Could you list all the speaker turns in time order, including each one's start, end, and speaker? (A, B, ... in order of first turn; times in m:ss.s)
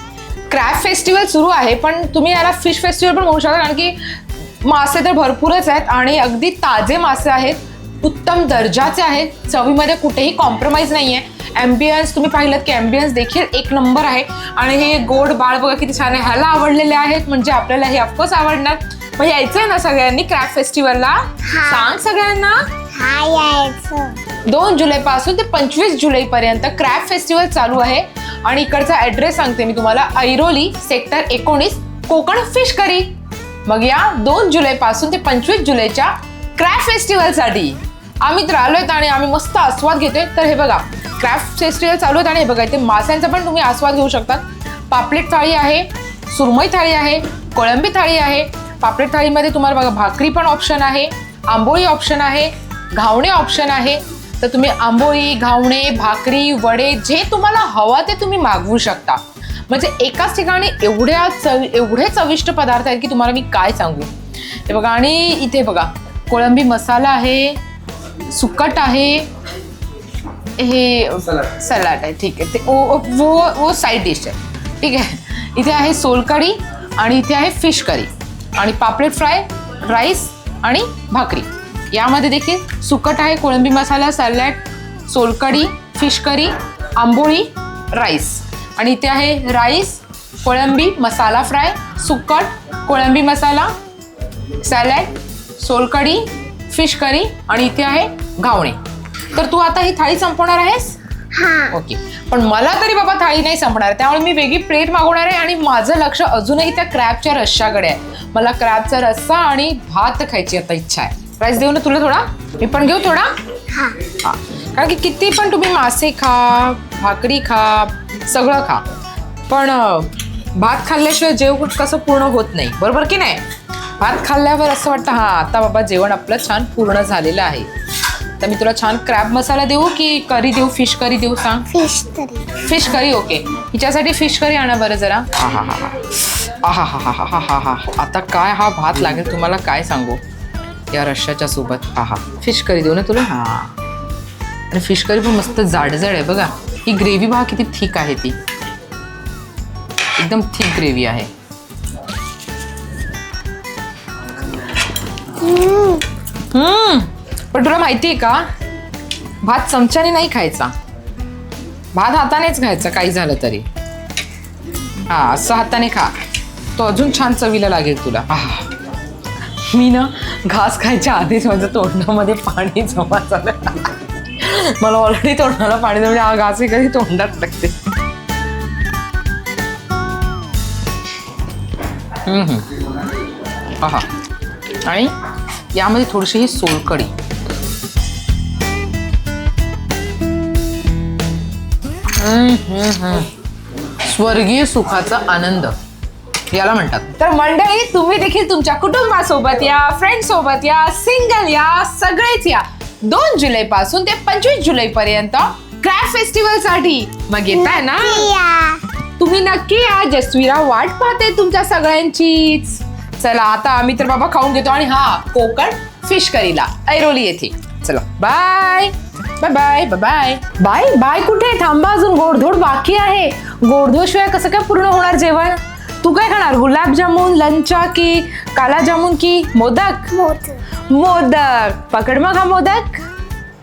0:00.5-0:22.7 A
0:21.4-0:21.9 B
0:22.9-0:24.2 B
0:24.4-0:33.1 A
0:33.7-1:04.1 A
1:04.7-1:07.6 A
1:08.3-1:09.3 A
1:10.6-1:33.7 A
1:34.6-1:38.8 A
1:39.3-1:41.0 A
1:41.3-1:41.7 B
1:41.7-1:53.3 A
1:54.0-1:58.8 A
1:59.5-2:03.4 A
2:04.0-2:07.7 A
2:08.4-2:11.6 A
2:11.7-2:12.6 B
2:12.6-2:20.2 A
2:20.9-2:23.7 A
2:24.7-2:28.4 A
2:30.2-2:31.3 A
2:35.4-2:36.0 B
2:36.5-2:38.4 A
2:39.4-2:40.7 A
2:41.9-2:43.6 A
2:45.1-2:46.1 A
2:46.8-2:48.7 A
2:49.6-2:57.7 A
3:02.2-3:02.6 A
3:03.8-3:04.0 A
3:04.8-3:05.1 A
3:05.7-3:07.1 A
3:12.1-3:13.3 A
3:14.0-3:15.7 A
3:16.5-3:28.3 A
3:27.5-3:28.8 B
3:29.2-3:50.2 A
3:50.1-3:50.6 B
3:50.9-3:53.0 A